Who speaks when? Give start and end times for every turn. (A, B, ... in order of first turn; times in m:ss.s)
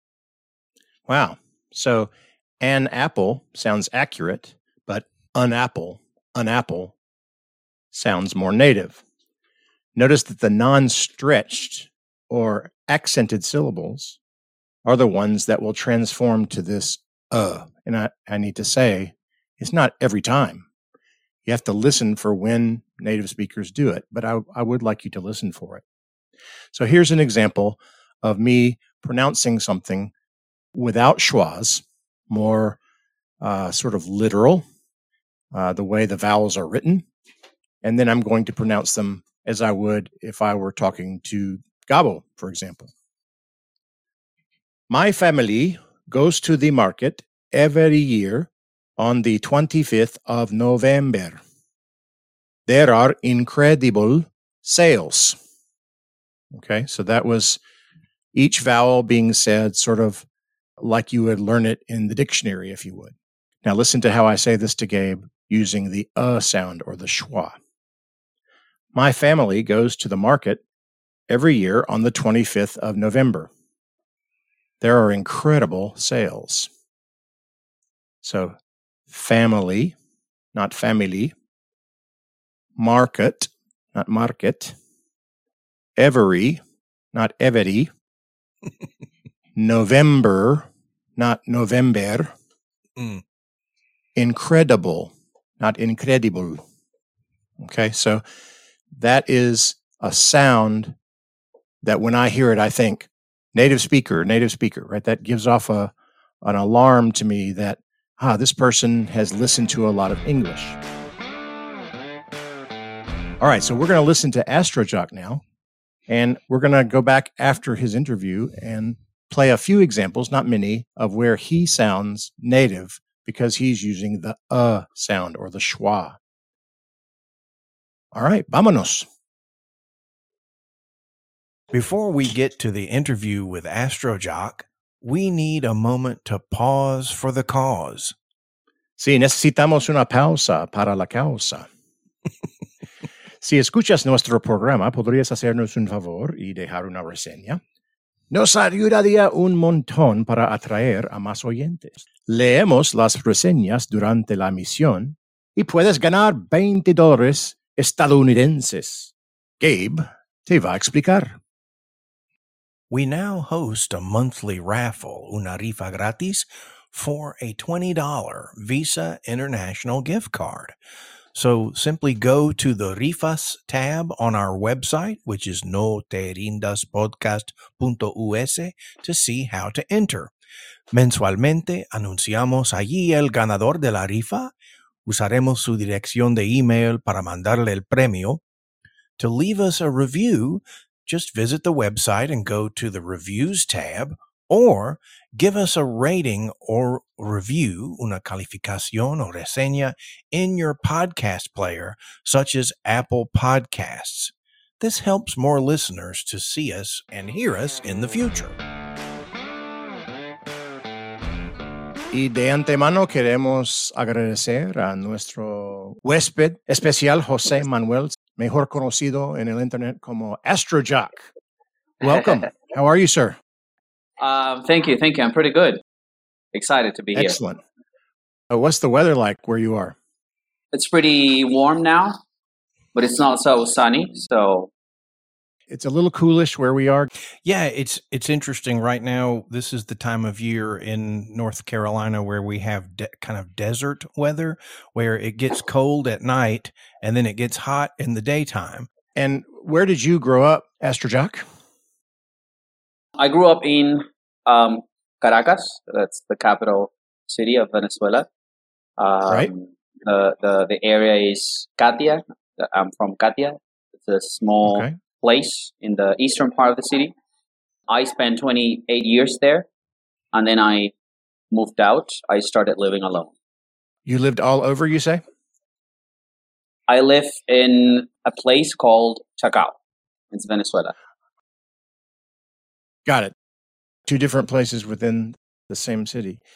0:01.1-0:06.9 A
0:07.9-0:09.0 A
0:09.9-0:14.2 A
0:14.8-0:20.6 A
0:21.4-0:25.8 A
0:26.7-0:30.1 A
0:30.7-0:32.8 A
0:33.4-0:34.7 A
0:35.5-0:37.0 A
0:37.8-0:42.9 A
0:44.9-0:51.4 A
0:52.7-0:55.4 A
0:56.5-0:57.6 A
0:58.3-1:00.2 A
1:00.8-1:07.6 A
1:08.9-1:10.6 A
1:11.3-1:13.5 A
1:14.8-1:16.7 A
1:18.2-1:18.6 A
1:19.1-1:20.0 A
1:20.5-1:21.3 A
1:22.8-1:24.8 A
1:26.0-1:26.6 A
1:27.1-1:27.9 A
1:29.6-1:32.3 A
1:33.0-1:33.2 B
1:34.2-1:36.6 A
1:37.6-1:38.2 A
1:39.0-1:41.0 A
1:41.8-1:50.8 A
1:53.4-1:55.4 A
1:56.1-2:06.2 A
2:08.1-2:09.1 A
2:11.7-2:18.2 B
2:19.0-2:21.7 A
2:23.4-2:27.6 A
2:28.3-2:41.4 A
2:42.9-2:50.8 B
2:51.3-3:00.3 B
3:00.9-3:04.5 B
3:05.0-3:08.4 B
3:09.2-3:28.6 B
3:32.1-3:41.3 A
3:42.0-3:43.4 A
3:44.2-3:45.8 C
3:46.5-3:47.4 C
3:47.1-3:47.6 A
3:48.5-3:50.0 A
3:50.7-3:52.2 C
3:52.9-3:54.7 C
3:55.7-3:57.1 A
3:57.4-4:08.9 B
4:09.2-4:11.5 A
4:13.2-4:18.3 C
4:19.0-4:27.1 C
4:24.6-4:24.9 A
4:27.9-4:29.7 C
4:30.3-4:30.9 C
4:31.5-4:33.3 C
4:34.0-4:35.2 A
4:36.9-4:39.8 C
4:40.3-4:40.9 C
4:43.0-4:43.3 A
4:44.0-4:46.4 A